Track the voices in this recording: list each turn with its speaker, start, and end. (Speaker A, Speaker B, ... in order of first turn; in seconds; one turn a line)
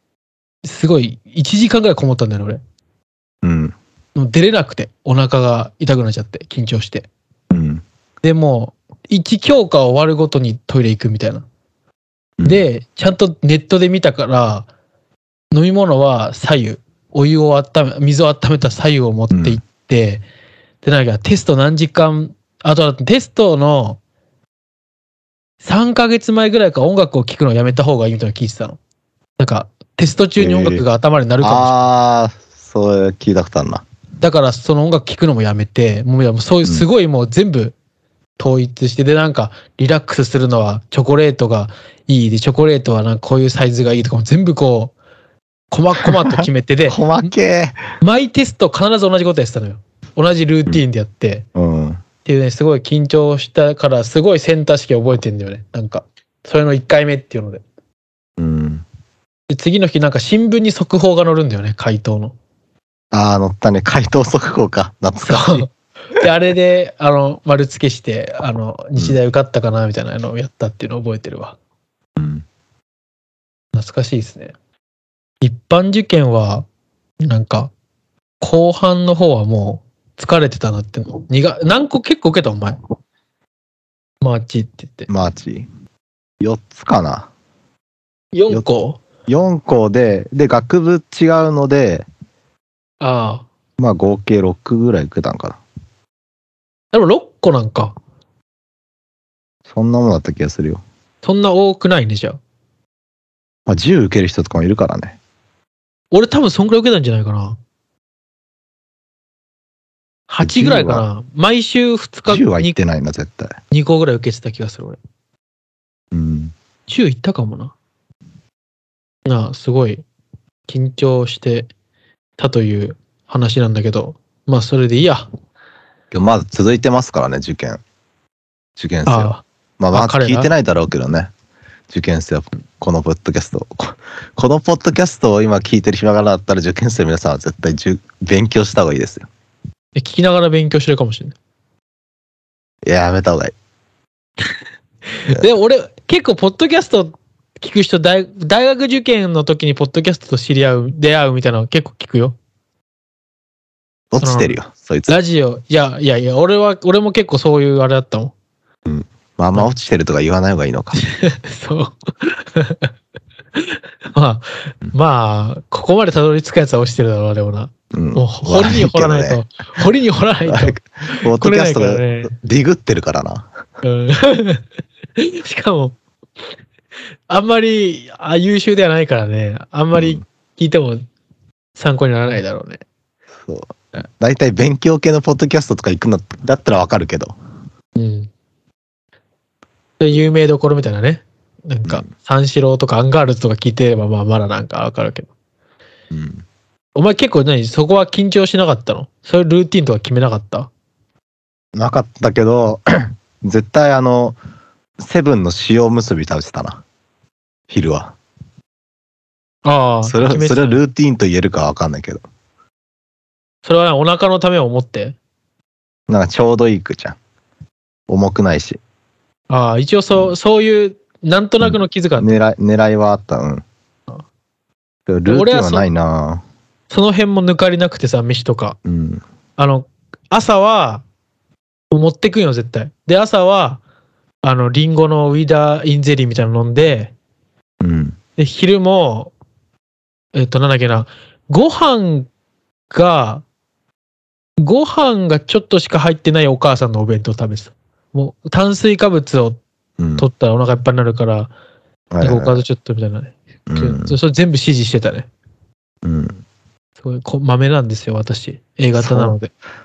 Speaker A: 0.6-2.6
Speaker B: 3.4-3.7
Speaker A: 4.1-7.1
Speaker B: 7.5-7.8
Speaker A: 8.2-11.4
Speaker B: 12.4-12.6
Speaker A: 12.4-14.7
Speaker A: 15.5-20.2
Speaker B: 19.3-19.6
Speaker A: 20.8-24.0
Speaker A: 25.6-28.8
Speaker A: 29.4-31.8
Speaker B: 30.4-30.8
Speaker B: 31.4-33.8
Speaker A: 34.2-37.7
Speaker A: 38.4-44.9
Speaker A: 45.7-47.0
Speaker B: 46.0-47.8
Speaker A: 48.0-51.4
Speaker B: 51.5-52.0
Speaker A: 52.2-57.6
Speaker B: 58.4-58.8
Speaker A: 59.5-62.3
Speaker B: 63.1-65.7
Speaker A: 65.2-71.6
Speaker B: 72.2-72.4
Speaker A: 73.7-74.5
Speaker A: 75.4-76.7
Speaker A: 77.2-77.7
Speaker A: 78.4-82.8
Speaker A: 84.2-85.1
Speaker B: 85.1-85.7
Speaker B: 86.4-87.3
Speaker A: 88.3-89.0
Speaker B: 89.3-92.0
Speaker A: 93.0-93.5
Speaker B: 93.8-95.6
Speaker A: 96.9-98.0
Speaker B: 99.7-100.8
Speaker A: 101.2-102.4
Speaker B: 103.7-105.2
Speaker A: 106.1-107.6
Speaker A: 110.3-112.8
Speaker B: 110.4-111.0
Speaker B: 112.3-113.5
Speaker A: 113.7-115.0
Speaker B: 116.1-116.5
Speaker A: 116.9-117.7
Speaker A: 119.2-120.0
Speaker A: 120.7-121.7
Speaker A: 122.4-125.3
Speaker B: 126.1-127.8
Speaker B: 128.8-131.3
Speaker A: 129.1-130.5
Speaker B: 131.9-139.3
Speaker A: 139.9-141.3
Speaker B: 142.8-143.5
Speaker A: 145.2-152.3
Speaker B: 154.1-155.2
Speaker A: 154.2-158.3
Speaker B: 158.8-161.0
Speaker A: 161.0-162.9
Speaker A: 163.7-172.3
Speaker B: 167.9-169.4
Speaker B: 170.5-173.5
Speaker A: 173.8-174.6
Speaker A: 175.2-176.0
Speaker A: 177.3-181.0
Speaker B: 179.9-180.2
Speaker A: 181.8-182.8
Speaker B: 183.3-187.3
Speaker A: 187.9-188.3
Speaker A: 190.0-195.3
Speaker B: 196.1-196.4
Speaker A: 196.9-200.7
Speaker B: 201.7-204.4
Speaker B: 205.0-206.8
Speaker B: 207.7-208.2
Speaker A: 209.6-210.8
Speaker B: 210.0-212.2
Speaker A: 213.6-215.2
Speaker B: 216.1-217.2
Speaker B: 218.1-218.8
Speaker A: 219.5-222.4
Speaker B: 221.6-223.6
Speaker B: 225.1-226.4
Speaker A: 225.3-225.9
Speaker A: 226.9-228.8
Speaker B: 228.8-229.2
Speaker A: 229.6-231.0
Speaker A: 231.9-233.8
Speaker A: 234.4-237.1
Speaker B: 237.8-238.2
Speaker A: 238.4-239.3
Speaker A: 240.3-242.3
Speaker A: 242.9-243.4
Speaker A: 244.6-249.6
Speaker B: 250.0-250.2
Speaker A: 250.2-251.5
Speaker B: 252.1-252.6
Speaker A: 252.2-255.3
Speaker B: 253.7-254.2
Speaker B: 256.0-256.4
Speaker A: 257.0-259.5
Speaker B: 259.0-259.4